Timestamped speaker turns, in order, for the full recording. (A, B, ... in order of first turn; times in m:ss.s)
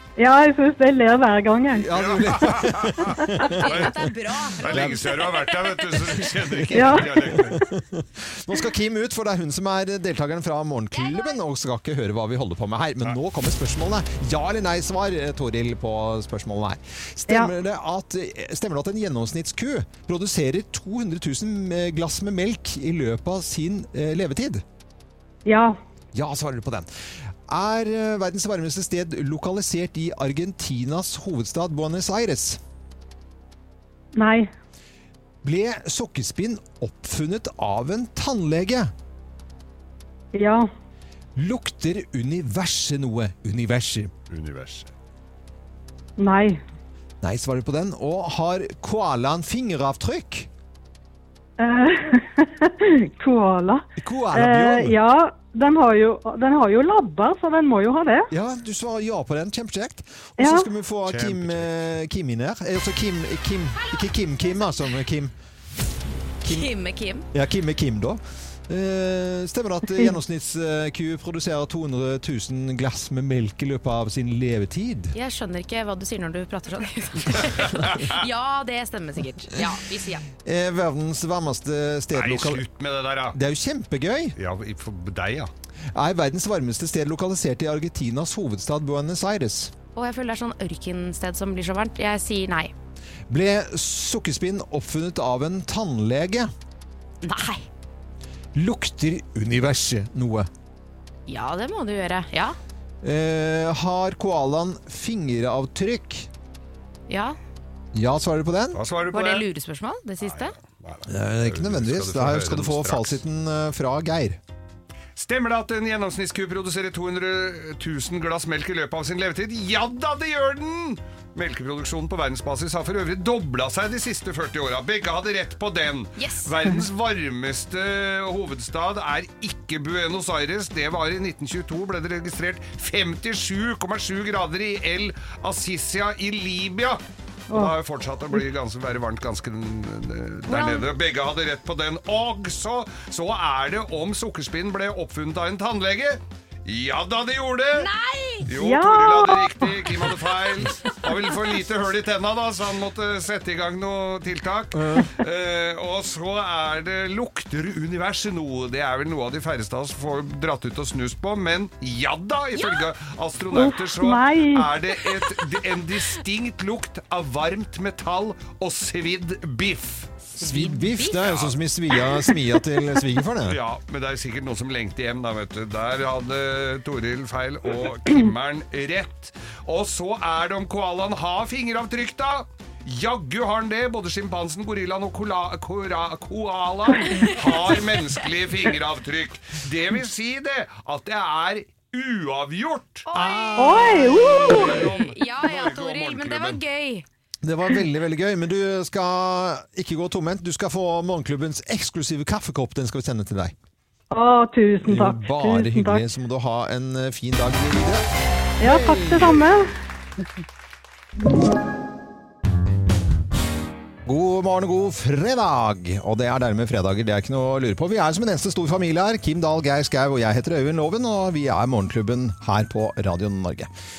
0:00.2-0:01.9 A
0:01.8-0:03.8 B
0:01.9-0:07.6 C
0:03.5-0:06.0 D
0:04.7-0:05.0 B
0:06.6-0:24.6 B
0:06.7-0:07.6 A
0:10.9-0:11.4 D
0:25.4-0:25.8 A
0:26.1-0:26.9 B
0:27.5-0:32.6 B
0:34.2-0:34.5 A
0:35.4-0:38.9 B
0:40.3-0:40.7 A
0:41.4-0:44.1 B
0:44.3-0:44.9 C
0:46.2-0:46.6 A
0:47.2-0:50.5 B
0:51.6-0:58.3 A
0:54.0-0:55.0 B
0:58.3-1:05.3 B
1:00.4-1:00.7 A
1:01.0-1:01.8 C
1:06.4-1:06.7 B
1:06.5-1:07.2 D
1:07.3-1:15.1 B
1:15.1-1:20.2 D
1:17.6-1:18.2 C
1:20.4-1:22.6 B
1:22.1-1:23.4 C
1:23.3-1:24.4 B
1:24.4-1:25.5 C
1:25.9-1:29.7 B
1:29.9-1:32.7 D
1:33.3-1:36.5 B
1:37.2-1:37.6 D
1:38.6-1:40.5 B
1:41.3-1:42.6 D
1:43.0-1:46.3 B
1:47.1-1:47.4 D
1:47.9-1:48.8 B
1:48.7-1:49.5 C
1:49.1-1:50.5 D
1:50.2-1:53.2 C
1:51.1-1:54.4 B
1:55.2-2:27.9 C
2:06.2-2:06.5 D
2:20.5-2:20.9 D
2:27.8-2:28.5 D
2:28.4-2:50.3 C
2:28.5-2:29.9 A
2:30.6-2:31.0 D
2:34.7-2:35.1 B
2:42.6-2:42.8 D
2:43.5-2:44.9 A
2:50.4-2:51.2 D
2:50.4-2:53.6 B
2:51.2-2:51.5 C
2:53.5-3:13.1 C
3:07.1-3:07.6 D
3:13.1-3:17.1 D
3:13.1-3:14.7 B
3:13.6-3:14.8 A
3:14.5-3:16.6 C
3:17.4-3:23.5 B
3:24.1-3:26.1 A
3:24.8-3:28.0 B
3:28.6-3:29.4 B
3:28.6-3:29.7 A
3:34.1-3:43.7 B